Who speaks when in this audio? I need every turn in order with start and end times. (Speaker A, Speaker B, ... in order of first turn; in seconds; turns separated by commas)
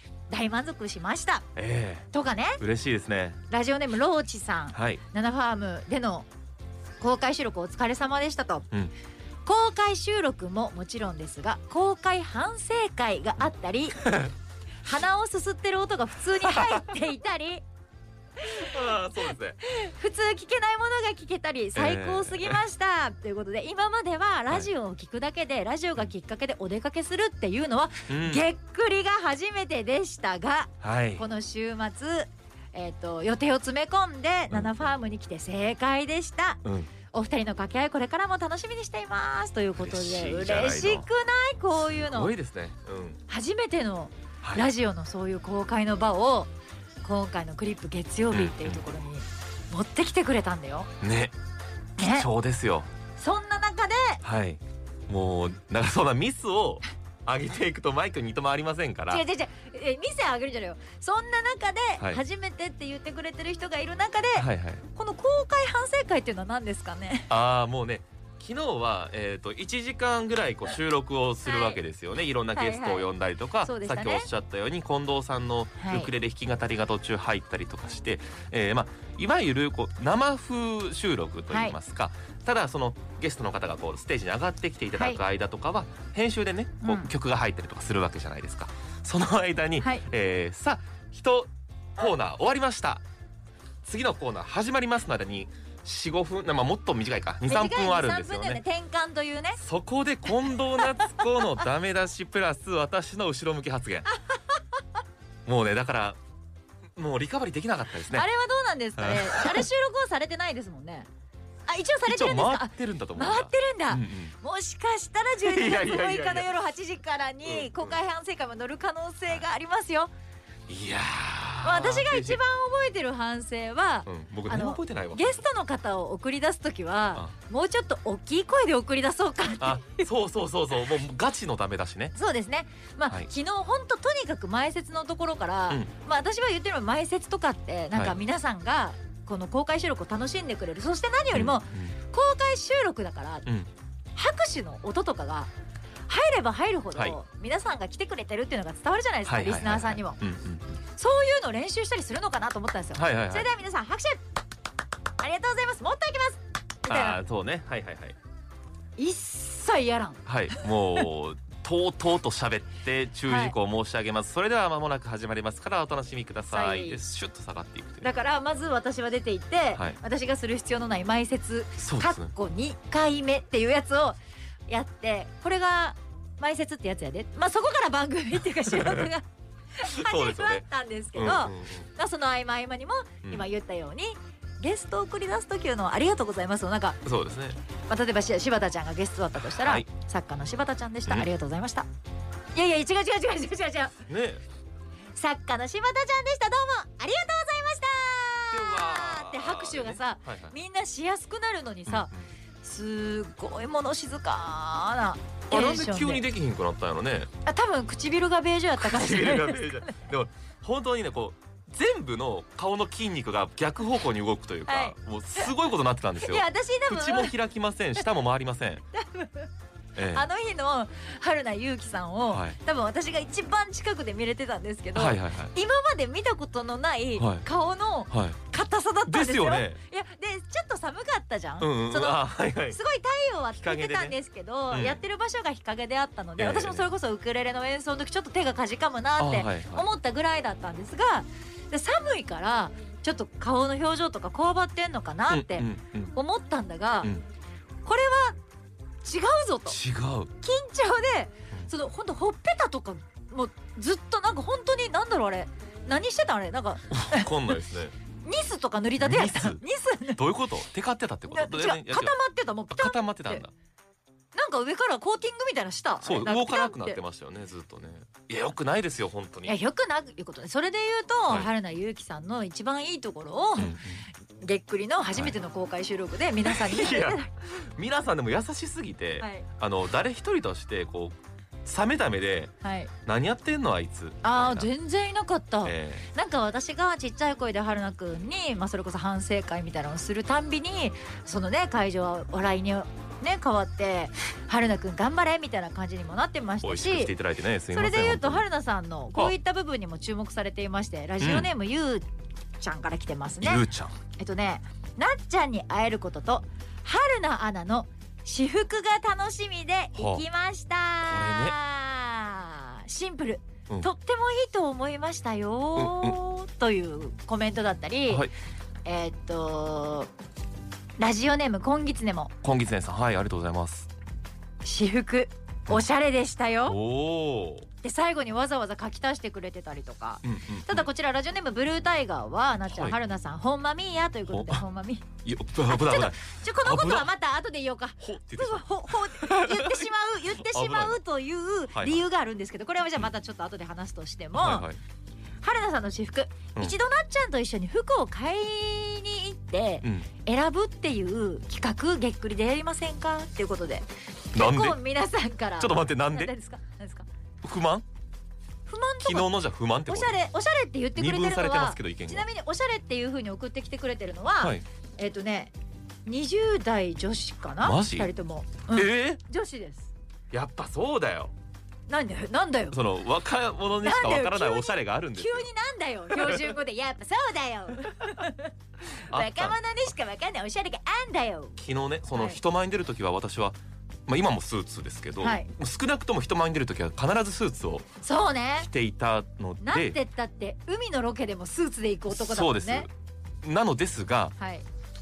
Speaker A: 0.3-1.5, Speaker B: 1.6-3.4, Speaker A: 2.1-2.6, Speaker A: 3.5-6.3, Speaker B: 4.7-5.0, Speaker A: 7.0-8.7, Speaker A: 9.4-14.1, Speaker B: 14.0-14.3, Speaker A: 14.8-17.6, Speaker B: 16.5-16.8, Speaker A: 18.4-18.7, Speaker B: 18.4-19.6, Speaker A: 19.6-42.3, Speaker B: 21.7-22.6, Speaker B: 28.1-28.4, Speaker B: 30.8-31.2, Speaker B: 34.5-34.9, Speaker B: 36.6-36.9, Speaker B: 39.8-41.1, Speaker B: 41.8-43.2, Speaker A: 43.3-46.5, Speaker A: 47.0-50.9, Speaker B: 48.3-48.8, Speaker B: 51.0-51.3, Speaker A: 52.0-52.3, Speaker B: 52.0-52.9, Speaker A: 53.2-54.2, Speaker B: 54.2-59.2, Speaker A: 59.1-67.3, Speaker B: 64.3-64.8, Speaker B: 67.3-93.0, Speaker A: 71.5-71.8, Speaker A: 72.5-73.1, Speaker A: 73.6-74.3, Speaker A: 75.8-76.1, Speaker A: 81.5-81.8, Speaker A: 86.8-87.1, Speaker B: 93.8-98.6, Speaker A: 97.5-99.6, Speaker B: 99.6-104.1, Speaker B: 105.5-106.2, Speaker B: 107.0-108.3, Speaker A: 108.1-111.1, Speaker B: 109.0-109.7, Speaker A: 111.7-120.1, Speaker B: 112.0-114.3, Speaker B: 115.4-116.5, Speaker B: 117.4-118.0, Speaker B: 120.7-122.4, Speaker A: 121.6-130.0, Speaker B: 124.0-125.4, Speaker B: 129.6-132.1, Speaker A: 132.1-143.5, Speaker B: 141.3-141.9, Speaker A: 144.1-145.5, Speaker A: 146.1-150.2, Speaker B: 149.2-150.8, Speaker A: 150.9-154.2, Speaker B: 152.9-153.5, Speaker A: 155.2-157.2, Speaker B: 156.9-158.2, Speaker A: 159.0-160.6, Speaker B: 160.2-168.0, Speaker A: 163.2-163.5, Speaker A: 166.5-167.0, Speaker A: 168.0-187.0, Speaker B: 171.8-172.3, Speaker B: 178.7-179.1, Speaker B: 179.8-181.9, Speaker B: 187.0-187.6, Speaker A: 187.9-191.9, Speaker B: 189.5-189.9, Speaker A: 192.5-194.0, Speaker B: 194.1-194.4, Speaker A: 195.1-202.1, Speaker B: 198.5-200.5, Speaker B: 201.9-202.2, Speaker A: 202.6-206.2, Speaker B: 205.5-207.3, Speaker A: 207.4-210.0, Speaker B: 208.8-218.8, Speaker A: 214.7-215.5, Speaker A: 216.2-217.3, Speaker A: 218.9-219.5, Speaker B: 219.9-220.3, Speaker A: 220.1-247.1, Speaker B: 222.3-222.6, Speaker B: 224.9-225.5, Speaker B: 227.2-227.4, Speaker B: 228.1-228.4, Speaker B: 229.1-229.8, Speaker B: 231.6-232.8, Speaker B: 233.6-234.2, Speaker B: 234.7-235.0, Speaker B: 236.4-236.9, Speaker B: 239.2-239.9, Speaker B: 245.3-246.1, Speaker A: 247.8-248.4, Speaker A: 249.0-249.8, Speaker B: 249.7-250.3, Speaker A: 250.4-257.3, Speaker B: 256.9-257.9, Speaker A: 258.2-260.2, Speaker B: 259.0-259.6, Speaker B: 260.1-262.1, Speaker A: 261.3-263.4, Speaker B: 262.7-263.5, Speaker A: 264.3-267.0, Speaker B: 266.0-269.5, Speaker A: 269.4-273.8, Speaker B: 273.6-274.1, Speaker A: 274.4-277.3, Speaker B: 276.4-282.5, Speaker A: 279.2-279.5, Speaker A: 282.6-282.9, Speaker B: 283.1-284.7, Speaker A: 284.2-297.1, Speaker B: 285.6-286.1, Speaker B: 296.6-298.4, Speaker A: 297.7-302.0, Speaker B: 301.2-301.5, Speaker A: 302.6-318.3, Speaker B: 303.4-304.0, Speaker B: 310.0-310.2, Speaker B: 311.0-311.6, Speaker B: 315.8-316.2, Speaker A: 318.8-320.1, Speaker A: 321.0-322.3, Speaker B: 322.4-323.9, Speaker A: 324.6-326.8, Speaker B: 326.7-327.7, Speaker A: 327.8-335.1, Speaker B: 330.2-330.9, Speaker B: 332.7-333.0, Speaker B: 334.3-334.6, Speaker B: 335.2-337.1, Speaker A: 335.6-344.7, Speaker B: 338.0-341.0, Speaker B: 341.7-342.0, Speaker B: 344.3-344.8, Speaker A: 345.4-357.1, Speaker B: 349.8-350.1, Speaker B: 354.3-354.8, Speaker B: 355.6-356.3, Speaker B: 357.4-357.9, Speaker A: 358.7-359.3, Speaker B: 359.0-360.1, Speaker A: 359.9-365.5, Speaker B: 360.9-362.3, Speaker B: 364.4-364.6, Speaker A: 366.1-369.9, Speaker B: 367.6-368.1, Speaker B: 368.7-369.2, Speaker B: 370.3-371.3, Speaker A: 371.9-372.8, Speaker B: 372.7-375.5, Speaker A: 373.8-378.5, Speaker B: 376.1-376.5, Speaker A: 379.0-381.6, Speaker B: 379.1-379.6, Speaker B: 381.6-387.9, Speaker A: 382.1-382.4, Speaker A: 385.2-385.5, Speaker A: 388.0-388.7, Speaker B: 388.6-390.0, Speaker A: 389.6-392.9, Speaker B: 392.1-392.9, Speaker B: 393.4-394.3, Speaker A: 394.4-394.6